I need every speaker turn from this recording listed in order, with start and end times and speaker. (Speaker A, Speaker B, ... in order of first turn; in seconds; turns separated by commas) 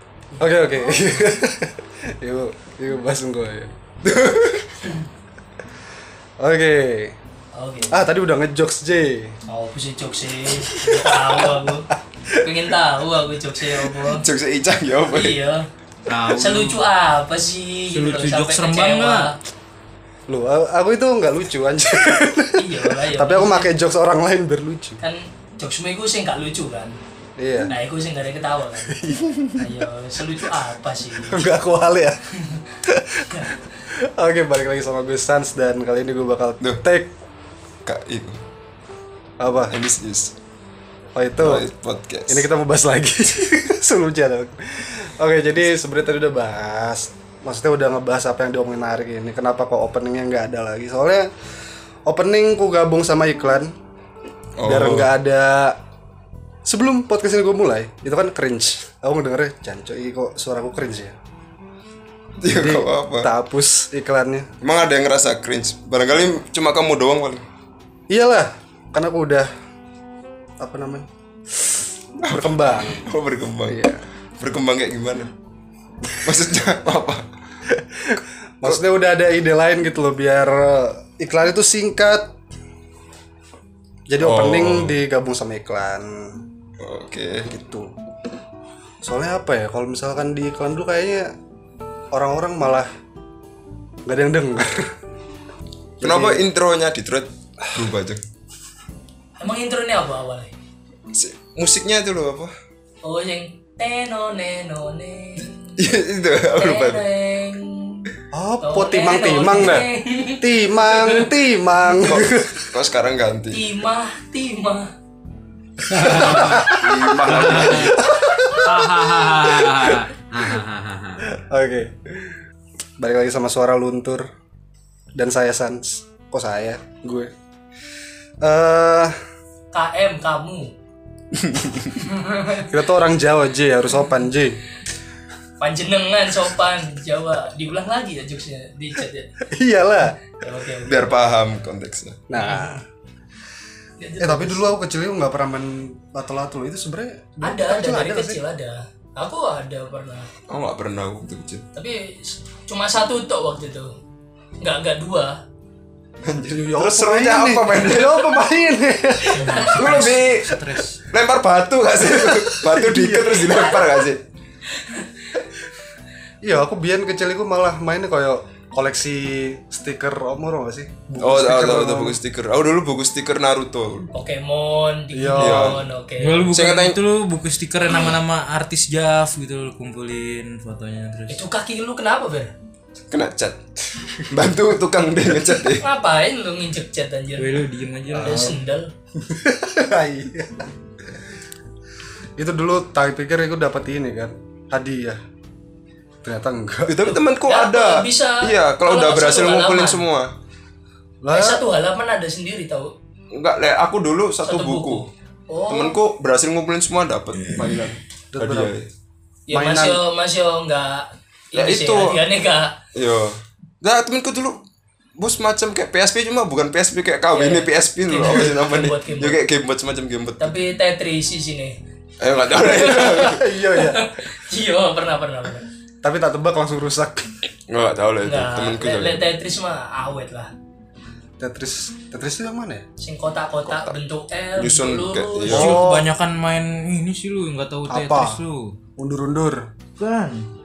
Speaker A: 0.3-1.4, Speaker B: 0.4-3.7, Speaker C: 4.0-4.8, Speaker B: 6.4-7.2, Speaker A: 7.5-8.0, Speaker B: 7.9-9.4, Speaker A: 9.5-14.2, Speaker B: 10.7-12.8, Speaker B: 13.7-14.1, Speaker C: 14.1-15.4, Speaker A: 15.1-15.7, Speaker D: 16.1-16.9, Speaker A: 16.3-19.4, Speaker D: 17.9-19.3, Speaker B: 20.3-25.0, Speaker A: 22.6-23.7, Speaker A: 25.0-27.0, Speaker B: 27.4-27.8, Speaker A: 27.7-31.5, Speaker B: 28.9-29.8, Speaker B: 31.2-32.2, Speaker B: 32.8-37.1, Speaker C: 37.9-38.4, Speaker B: 39.4-39.7, Speaker C: 39.7-40.3, Speaker B: 41.1-41.7, Speaker C: 41.4-42.5, Speaker B: 42.3-51.3, Speaker B: 52.1-53.7, Speaker C: 54.6-55.1, Speaker B: 54.6-55.8, Speaker B: 56.6-61.2, Speaker C: 62.4-63.3, Speaker B: 62.5-64.5, Speaker C: 64.6-67.4, Speaker B: 68.1-69.5, Speaker B: 70.6-73.1, Speaker C: 72.2-73.8, Speaker B: 73.7-74.0, Speaker C: 74.4-75.3, Speaker C: 76.2-77.3, Speaker B: 78.0-82.3, Speaker B: 84.1-86.4, Speaker C: 84.2-85.0, Speaker C: 86.8-87.5, Speaker B: 87.5-87.9, Speaker B: 89.0-91.3, Speaker B: 92.1-92.9, Speaker B: 94.1-94.9, Speaker B: 96.0-96.4, Speaker C: 96.0-98.2, Speaker A: 99.4-100.5, Speaker C: 101.1-102.5, Speaker A: 103.0-105.6, Speaker C: 105.8-107.0, Speaker A: 106.5-108.1, Speaker B: 108.3-109.9, Speaker A: 108.6-111.3, Speaker B: 110.4-112.8, Speaker C: 111.9-113.7, Speaker A: 113.5-114.9, Speaker D: 115.9-116.7, Speaker B: 115.9-120.5, Speaker C: 116.5-118.0, Speaker D: 117.2-118.0, Speaker D: 118.5-121.3, Speaker B: 121.2-122.4, Speaker B: 123.0-124.3, Speaker B: 125.2-127.3, Speaker B: 128.4-129.2, Speaker A: 129.7-130.7, Speaker A: 132.0-132.7, Speaker B: 132.6-134.6, Speaker A: 135.6-139.3, Speaker B: 139.5-140.2, Speaker A: 140.4-141.2, Speaker C: 140.9-142.2, Speaker B: 142.3-142.8, Speaker A: 144.0-144.7, Speaker B: 144.2-148.4, Speaker A: 147.4-150.3, Speaker C: 150.5-151.6, Speaker A: 151.8-153.9, Speaker A: 154.6-155.4, Speaker C: 156.2-158.4, Speaker B: 156.5-159.7, Speaker A: 159.3-160.2, Speaker D: 159.4-161.0, Speaker C: 159.7-160.5, Speaker C: 161.1-164.2, Speaker B: 162.0-163.9, Speaker A: 164.8-165.1, Speaker B: 166.4-172.2, Speaker C: 171.2-174.1, Speaker A: 174.1-176.5, Speaker B: 175.1-175.8, Speaker C: 175.4-175.8, Speaker D: 176.2-181.4, Speaker C: 176.5-177.0, Speaker A: 181.3-182.5, Speaker C: 183.1-185.9, Speaker A: 185.8-187.6, Speaker D: 187.4-188.6, Speaker A: 188.1-188.9, Speaker B: 189.2-190.7, Speaker B: 192.4-195.2, Speaker B: 196.2-197.2, Speaker C: 196.9-200.3, Speaker A: 197.5-200.0, Speaker B: 201.2-201.7, Speaker A: 201.3-202.9, Speaker C: 203.3-205.1, Speaker A: 204.4-206.0, Speaker C: 205.7-208.9, Speaker B: 208.3-208.7, Speaker A: 209.5-212.8, Speaker B: 209.5-210.0, Speaker C: 211.6-212.2, Speaker C: 212.9-214.6, Speaker C: 215.2-220.6, Speaker A: 217.3-219.4, Speaker A: 220.4-221.8, Speaker C: 222.2-223.4, Speaker A: 222.5-225.7, Speaker B: 222.8-224.1, Speaker B: 226.0-227.3, Speaker C: 227.7-229.2, Speaker A: 228.2-230.5, Speaker B: 231.4-232.8, Speaker A: 233.0-235.7, Speaker C: 234.6-235.8, Speaker B: 235.5-236.1, Speaker D: 235.5-238.7, Speaker B: 237.9-238.4, Speaker B: 239.0-239.7, Speaker D: 240.0-240.5